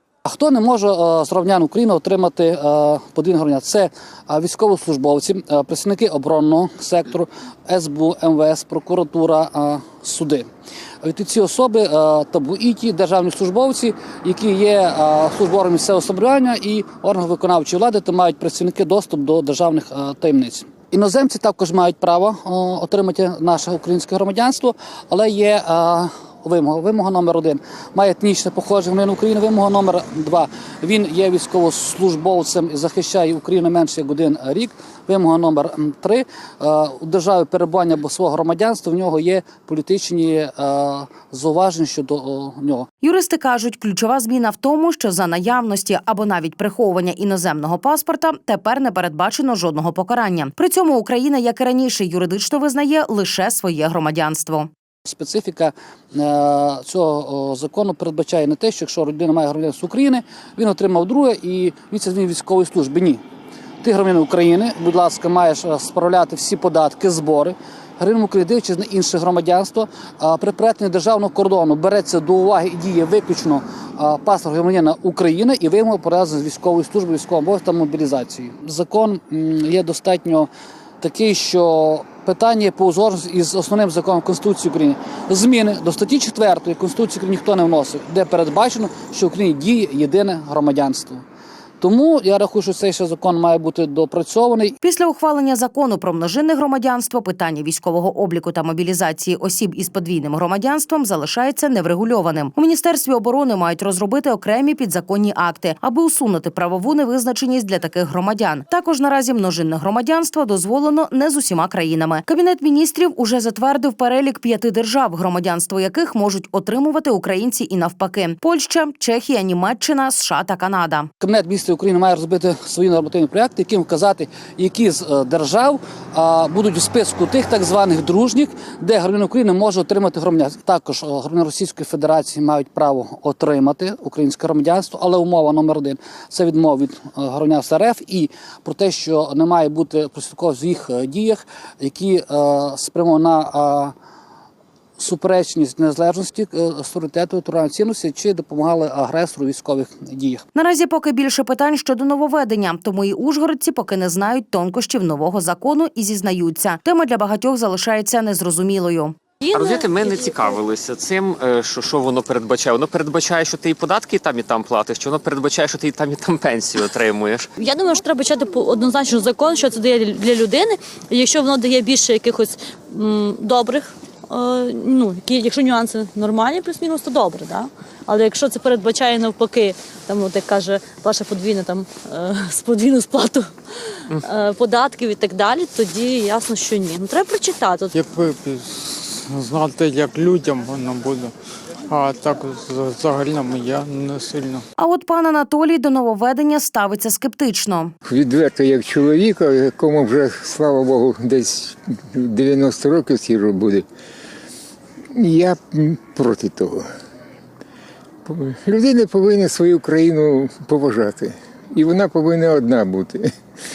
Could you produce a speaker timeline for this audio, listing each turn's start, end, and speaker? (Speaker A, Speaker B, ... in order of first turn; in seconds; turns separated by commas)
Speaker A: 0.2-10.5, Speaker A: 11.0-42.9, Speaker B: 43.0-54.7, Speaker A: 55.0-63.2, Speaker A: 63.8-80.5, Speaker A: 81.0-91.2, Speaker A: 91.8-94.8, Speaker B: 94.8-121.1, Speaker A: 121.2-143.9, Speaker A: 145.0-150.4, Speaker B: 150.5-159.2, Speaker C: 159.4-160.5, Speaker D: 159.5-167.5, Speaker C: 167.6-183.5, Speaker C: 184.1-187.9, Speaker E: 187.9-191.3, Speaker E: 191.9-194.6, Speaker B: 194.8-197.9, Speaker F: 198.0-203.8, Speaker F: 205.1-206.9, Speaker F: 208.2-213.3